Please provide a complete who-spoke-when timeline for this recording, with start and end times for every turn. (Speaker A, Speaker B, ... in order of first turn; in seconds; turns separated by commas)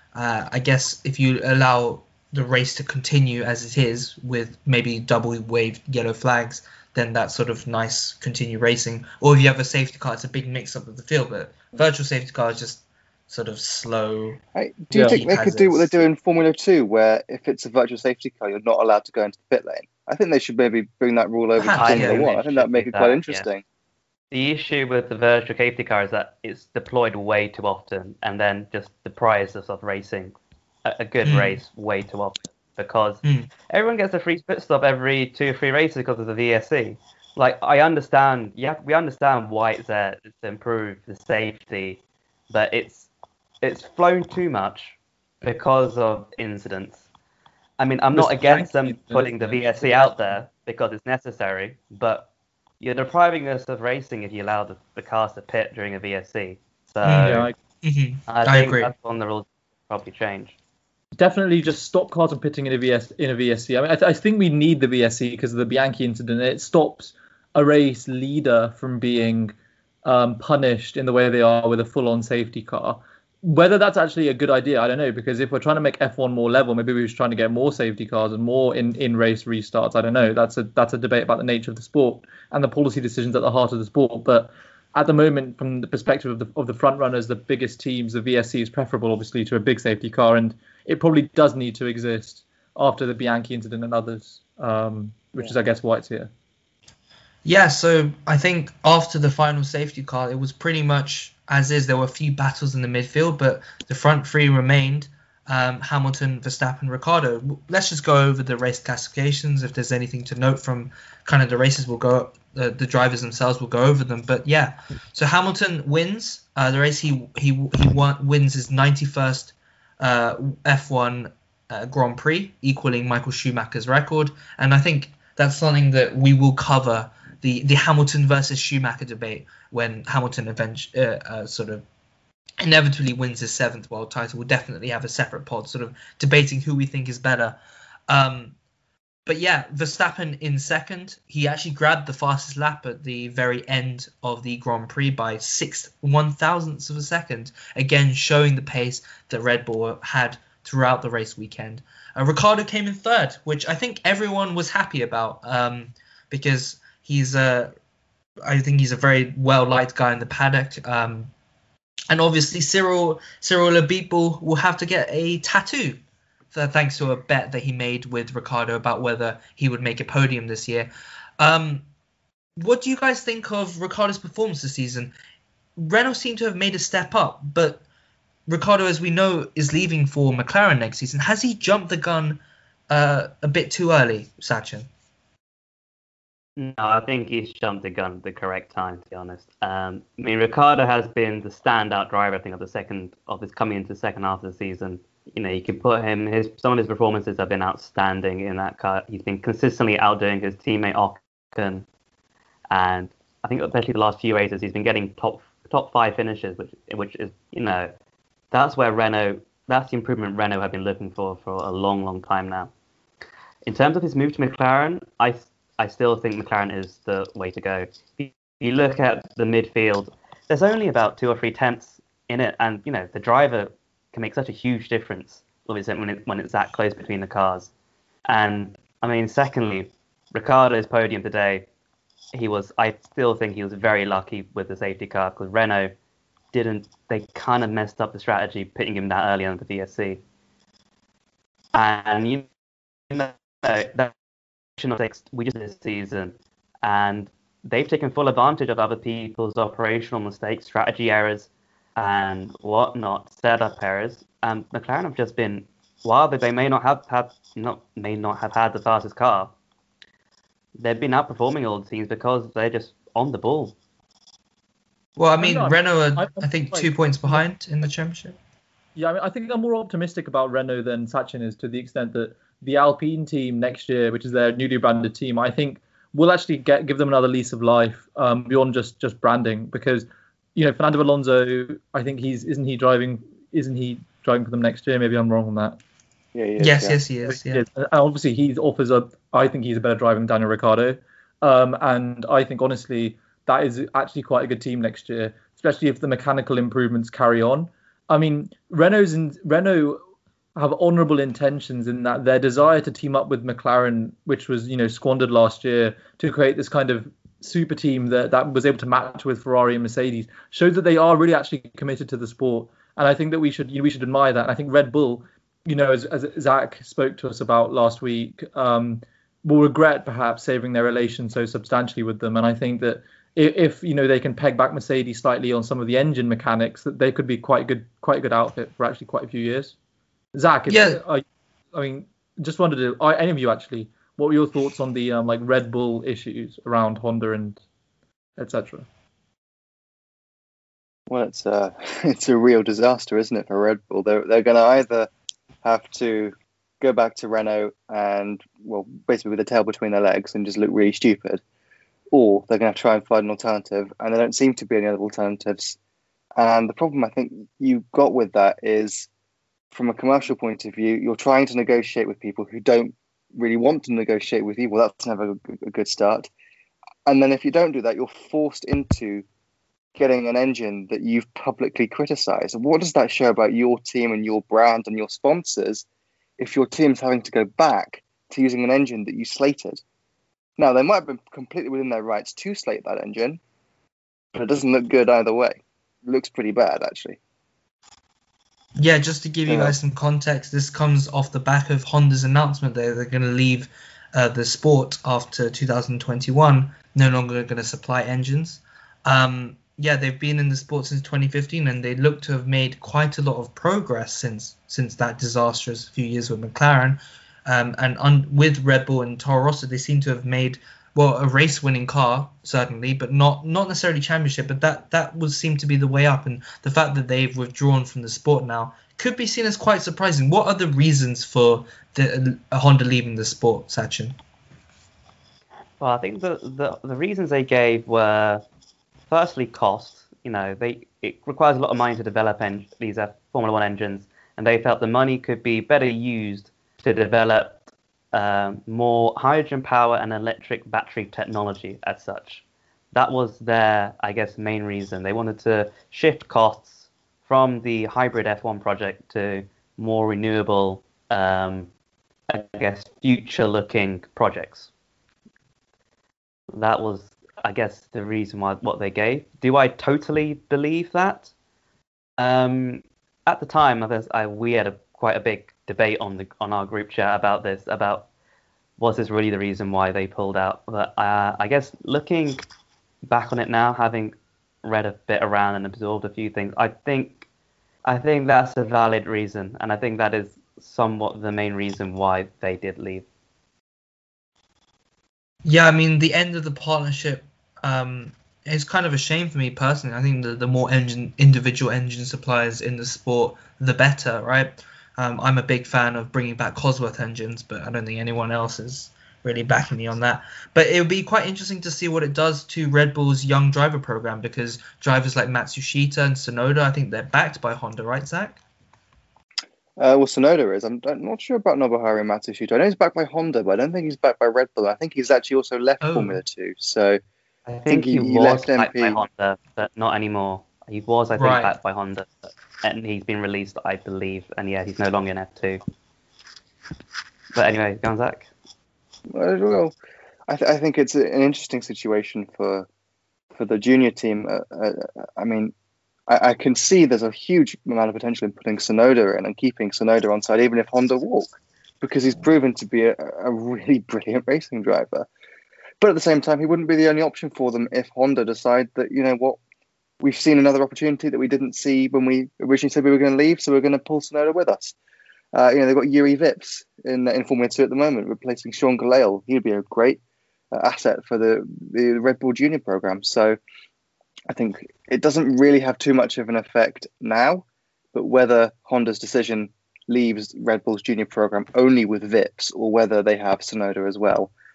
Speaker A: 0.1-14.4, Speaker B: 14.6-23.6, Speaker C: 14.9-15.2, Speaker A: 14.9-15.9, Speaker A: 21.6-22.3, Speaker D: 21.7-23.4, Speaker D: 24.3-42.0, Speaker A: 31.2-31.6, Speaker A: 33.2-33.5, Speaker D: 42.5-43.1, Speaker D: 43.6-47.0, Speaker D: 47.8-52.3, Speaker C: 48.1-50.3, Speaker D: 52.8-57.5, Speaker A: 57.0-58.9, Speaker C: 57.2-57.5, Speaker D: 58.3-60.5, Speaker C: 61.2-96.3, Speaker A: 97.5-131.8, Speaker A: 132.6-137.6, Speaker A: 138.1-138.6, Speaker A: 139.3-157.7, Speaker A: 158.5-161.3, Speaker A: 162.1-166.0, Speaker A: 166.5-171.8, Speaker A: 172.6-175.1, Speaker A: 175.8-177.8, Speaker A: 178.5-184.9, Speaker D: 186.6-201.8, Speaker D: 202.7-207.9, Speaker D: 208.5-212.7, Speaker D: 213.7-227.7, Speaker D: 228.3-231.7, Speaker D: 232.3-235.9, Speaker D: 236.5-240.2, Speaker D: 241.7-242.5, Speaker D: 243.1-244.2, Speaker D: 244.8-259.5, Speaker D: 260.8-263.8, Speaker A: 265.2-268.4, Speaker C: 265.4-267.5, Speaker C: 269.0-285.8, Speaker B: 286.3-287.0, Speaker A: 286.6-287.7, Speaker C: 287.3-300.0, Speaker C: 300.6-329.8, Speaker C: 330.3-337.6, Speaker A: 330.7-331.0, Speaker C: 338.4-338.9, Speaker B: 341.1-345.1, Speaker B: 345.6-351.4, Speaker B: 352.1-355.8, Speaker B: 356.4-359.1, Speaker B: 359.7-366.3, Speaker B: 367.1-369.2, Speaker B: 370.0-375.8, Speaker B: 376.4-379.8, Speaker B: 380.6-383.4, Speaker B: 384.3-387.2, Speaker A: 388.8-424.2, Speaker B: 389.5-389.8, Speaker D: 425.8-428.4, Speaker D: 429.1-437.6, Speaker D: 438.1-451.7, Speaker D: 452.3-454.7, Speaker D: 456.5-461.3, Speaker D: 462.2-468.1, Speaker D: 468.8-472.5, Speaker D: 473.1-477.3, Speaker D: 477.9-483.1, Speaker A: 485.4-508.4, Speaker B: 509.8-517.0, Speaker A: 515.8-516.2, Speaker D: 517.5-525.6, Speaker B: 517.7-519.0, Speaker A: 521.2-521.5, Speaker D: 527.4-528.3, Speaker B: 529.1-529.7, Speaker B: 530.3-532.7, Speaker B: 533.4-535.5, Speaker B: 536.1-545.1, Speaker B: 545.8-549.4, Speaker B: 550.0-554.7, Speaker B: 555.3-560.0, Speaker B: 560.5-563.4, Speaker B: 564.3-574.3